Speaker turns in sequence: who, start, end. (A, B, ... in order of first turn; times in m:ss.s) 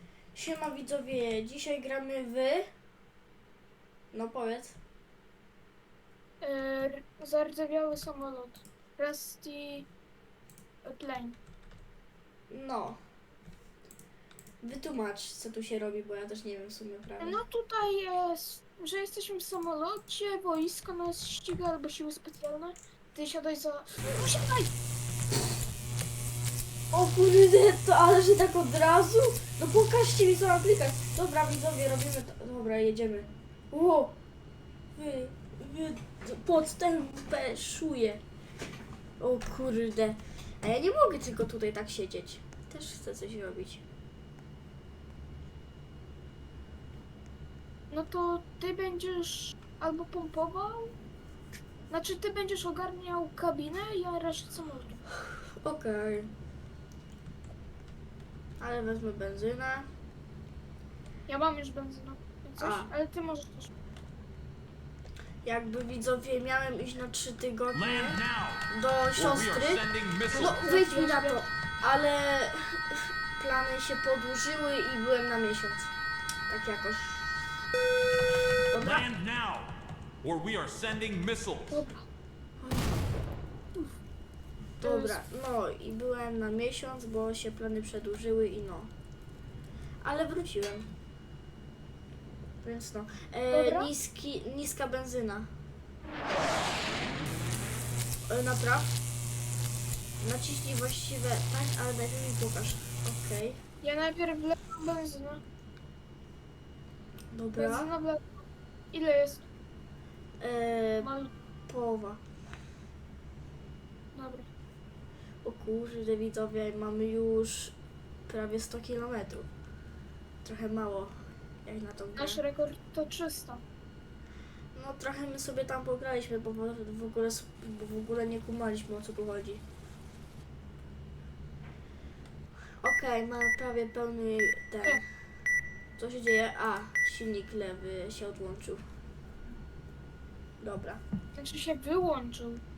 0:00.3-0:02.7 A
0:04.1-0:04.8 A
0:06.4-0:09.9 B
0:10.8-0:11.4 B
0:12.5-0:13.0 A
0:14.6-0:17.4 A
0:17.2-0:24.7 B
0:26.9-0:34.1 A
0:35.0-0:38.2 A
0:39.2-0:43.8 A
0:47.9-0:50.9 B
0:51.9-0:55.0 B
0:55.6-0:56.3 A
0:58.6-0:59.9 A
1:01.3-1:03.7 B
1:02.6-1:02.9 A
1:05.4-1:15.9 A
1:07.7-1:10.6 C
1:10.3-1:11.5 B
1:16.5-1:17.3 A
1:18.7-1:19.0 A
1:18.7-1:21.8 C
1:21.7-1:22.0 B
1:22.6-1:22.9 A
1:24.8-1:28.9 A
1:24.8-1:25.2 B
1:30.0-1:30.9 A
1:32.6-1:35.5 A
1:33.5-1:33.9 B
1:38.3-1:38.9 A
1:40.2-1:43.6 A
1:43.8-1:45.4 B
1:47.3-1:47.9 A
1:47.6-1:48.4 B
1:48.9-1:49.4 B
1:50.4-1:51.1 A
1:51.0-1:51.3 B
1:51.7-1:52.2 A
1:54.1-1:54.5 B
1:55.4-1:57.7 A
1:58.3-1:59.5 A
2:00.4-2:01.1 A
2:01.6-2:02.4 A
2:02.2-2:03.6 B
2:04.7-2:09.6 A
2:12.8-2:15.0 A
2:16.0-2:18.8 A
2:20.6-2:21.0 A
2:21.3-2:22.6 B